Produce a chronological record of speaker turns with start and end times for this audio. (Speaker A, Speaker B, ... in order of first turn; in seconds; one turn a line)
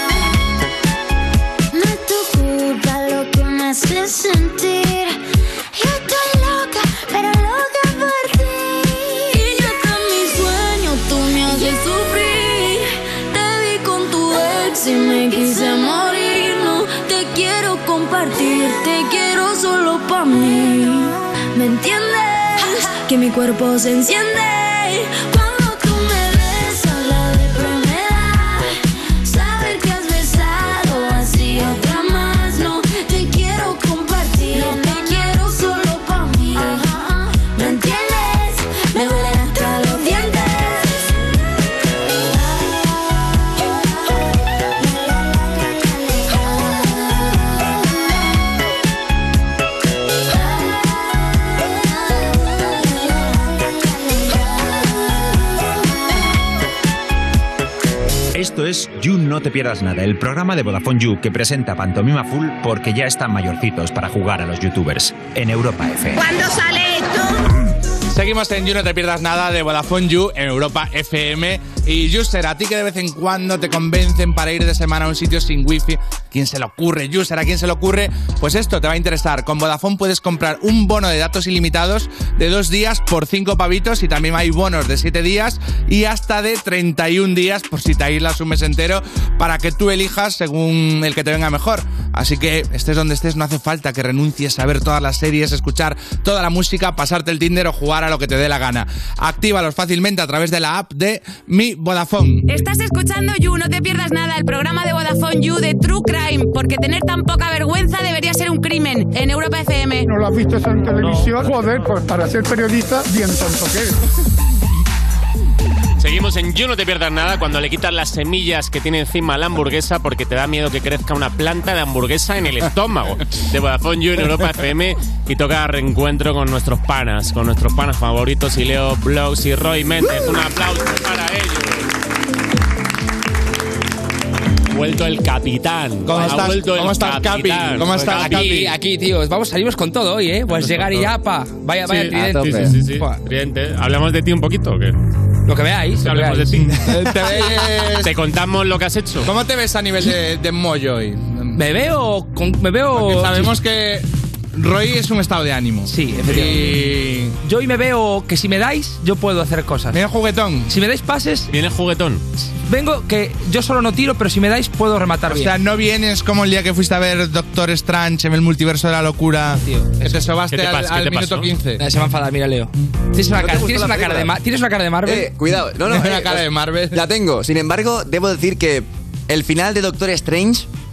Speaker A: 1.7-5.2
Speaker A: 5.7-41.3
Speaker A: 42.2-42.9
Speaker A: 44.8-47.2
Speaker A: 53.1-54.1
Speaker B: 58.3-66.2
Speaker C: 68.1-102.5
Speaker D: 102.5-110.1
Speaker E: 110.1-113.8
Speaker F: 116.0-131.9
Speaker F: 134.7-138.6
Speaker C: 136.0-138.7
Speaker G: 138.0-143.2
Speaker F: 140.5-141.1
Speaker F: 141.8-144.9
Speaker H: 142.2-142.7
Speaker G: 145.5-146.8
Speaker F: 146.0-146.8
Speaker C: 146.8-148.1
Speaker F: 148.0-149.3
Speaker C: 149.2-151.6
Speaker G: 151.5-153.5
Speaker C: 152.9-157.3
Speaker G: 155.9-156.9
Speaker G: 157.4-160.0
Speaker C: 159.9-160.7
Speaker G: 160.7-161.5
Speaker F: 161.5-162.2
Speaker G: 162.7-165.6
Speaker C: 165.3-171.8
Speaker G: 169.6-170.3
Speaker F: 170.5-171.5
Speaker G: 171.8-175.3
Speaker H: 173.3-174.3
Speaker H: 175.0-180.7
Speaker C: 175.8-177.0